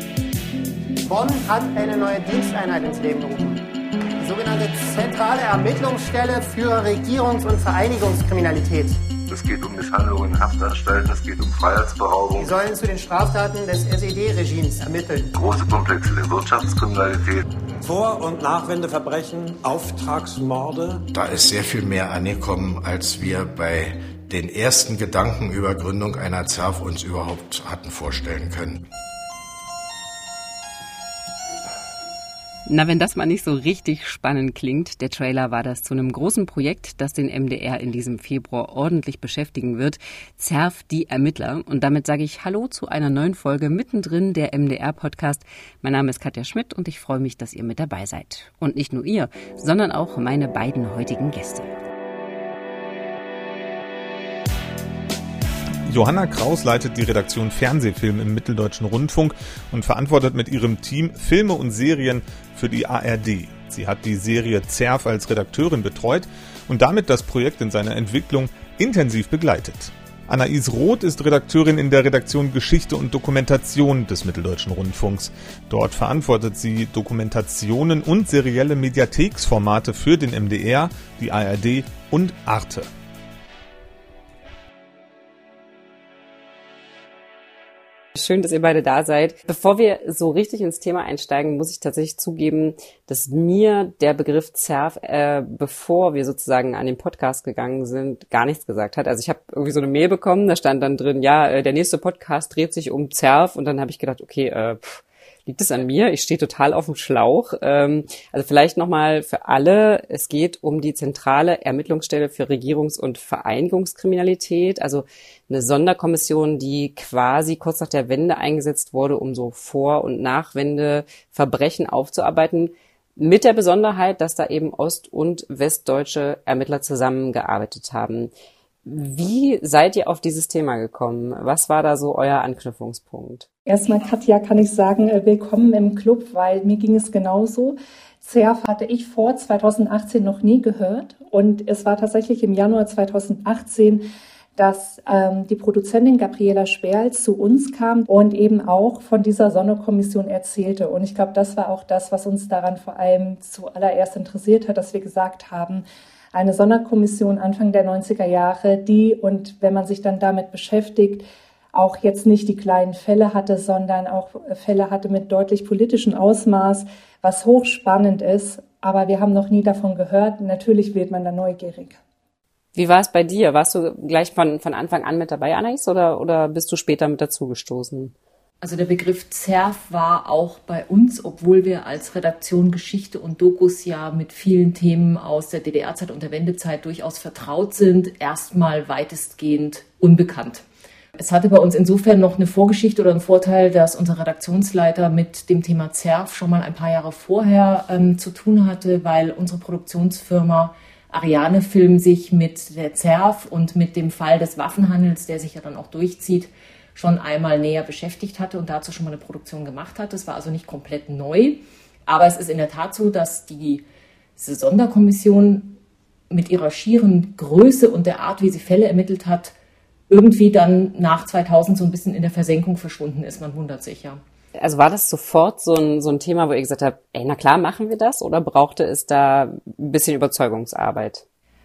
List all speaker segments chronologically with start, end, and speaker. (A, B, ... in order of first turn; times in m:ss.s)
0:01.1-0:09.0 A
0:09.3-0:12.6 B
0:12.4-0:15.3 A
0:15.3-0:17.4 B
0:17.8-0:21.0 C
0:21.1-0:28.8 D
0:32.7-0:51.7 E
0:55.9-1:22.9 F
1:28.1-2:08.3 E
2:08.8-2:13.5 E
2:13.6-2:24.0 G
2:24.6-2:52.0 G
2:52.7-2:58.1 E
2:58.6-3:10.6 H
3:11.2-3:33.8 H
3:34.4-3:35.8 H
3:36.3-3:39.5 H
3:40.1-3:44.2 H
3:44.6-3:51.2 E